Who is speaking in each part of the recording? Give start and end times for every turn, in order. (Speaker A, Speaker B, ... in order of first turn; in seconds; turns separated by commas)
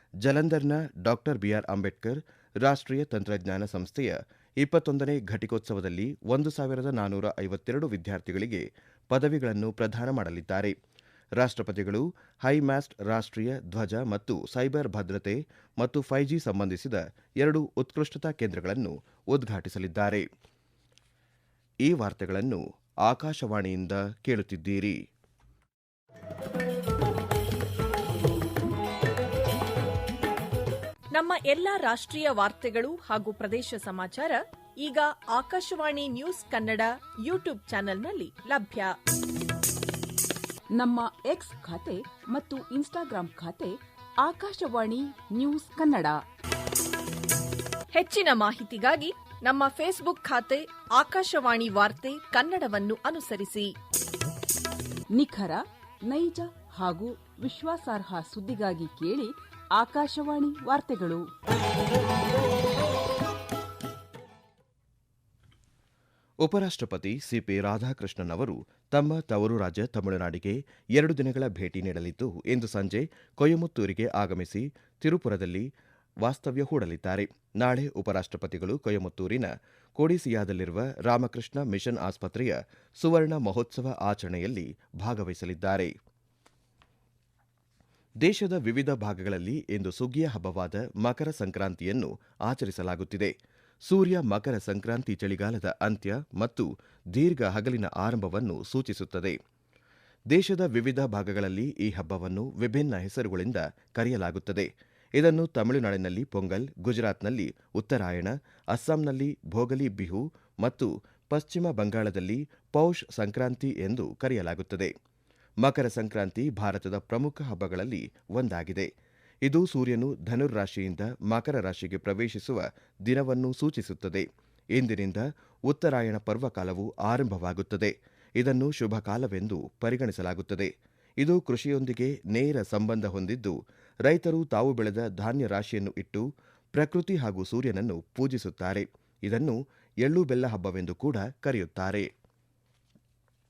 Speaker A: 0.2-10.7, Speaker A: 11.4-20.2, Speaker A: 21.8-25.0, Speaker B: 31.1-39.0, Speaker C: 40.8-46.2, Speaker B: 47.9-53.7, Speaker C: 55.1-61.2, Speaker A: 66.4-75.7, Speaker A: 76.2-85.9, Speaker A: 88.2-93.3, Speaker A: 93.8-99.4, Speaker A: 100.3-114.9, Speaker A: 115.6-118.9, Speaker A: 119.4-142.1